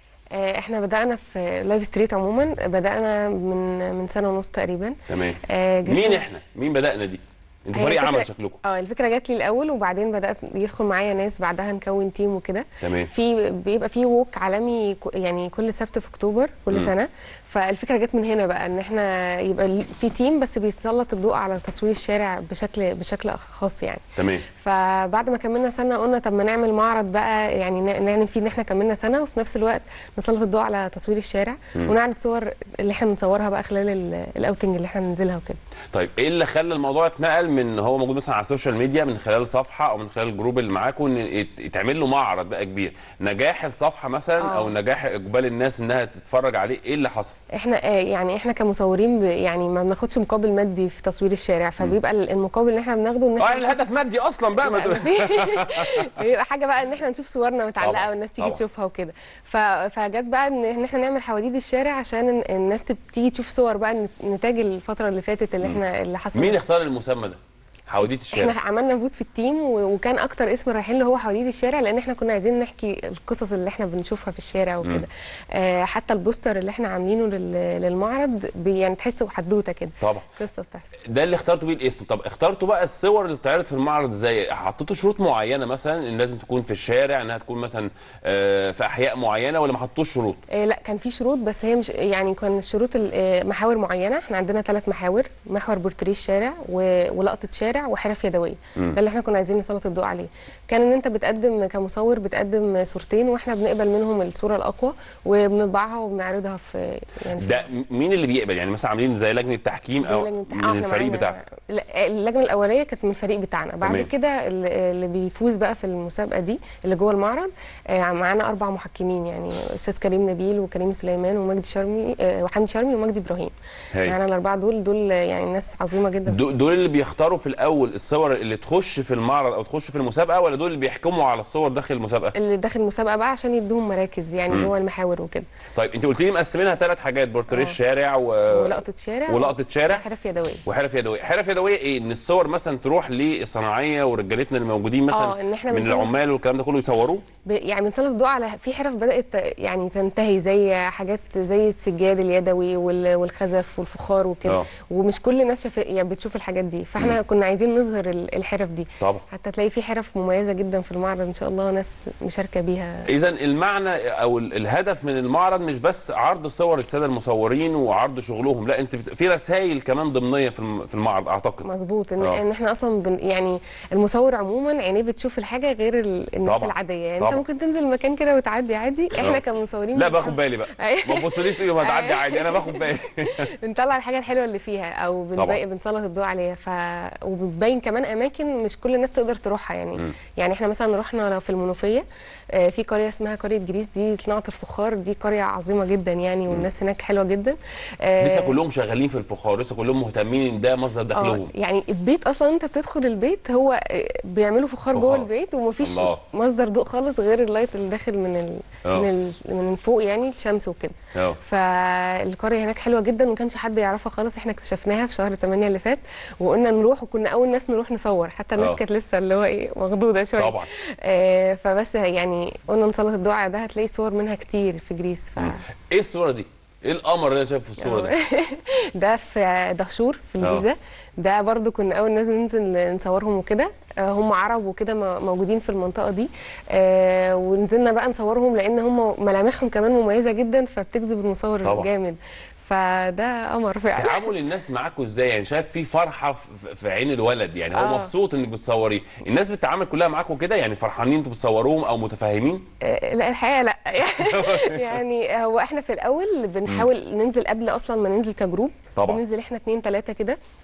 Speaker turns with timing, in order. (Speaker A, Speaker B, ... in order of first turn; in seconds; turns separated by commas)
Speaker A: 0.3-6.2, Speaker B: 5.1-8.6, Speaker A: 7.7-35.6, Speaker B: 12.8-13.1, Speaker B: 24.2-24.5, Speaker B: 35.9-47.3, Speaker A: 44.4-44.7, Speaker A: 47.5-53.9, Speaker B: 53.4-56.2, Speaker A: 54.6-66.6, Speaker B: 57.8-58.6, Speaker B: 66.3-68.6, Speaker A: 68.3-81.0, Speaker B: 80.0-80.2, Speaker B: 81.0-90.4, Speaker A: 90.5-107.7, Speaker B: 107.3-111.4, Speaker A: 110.0-126.4, Speaker B: 113.8-114.1, Speaker B: 126.2-132.3, Speaker A: 132.3-135.4, Speaker B: 135.8-138.7, Speaker A: 137.5-137.8, Speaker A: 138.5-140.6, Speaker B: 139.3-140.0, Speaker B: 140.7-147.2, Speaker A: 145.1-146.1, Speaker A: 147.5-163.1, Speaker B: 163.1-171.7, Speaker A: 171.6-198.5, Speaker B: 176.4-177.4, Speaker B: 179.1-179.4, Speaker B: 179.9-183.5, Speaker B: 198.2-201.5, Speaker A: 201.1-225.6, Speaker B: 204.9-205.3, Speaker B: 205.8-206.2, Speaker B: 211.1-211.4, Speaker B: 220.4-220.7, Speaker B: 225.4-228.1, Speaker A: 227.8-244.3, Speaker B: 243.9-252.6, Speaker A: 247.7-248.1, Speaker A: 252.8-260.4, Speaker B: 254.2-254.9, Speaker B: 258.9-259.2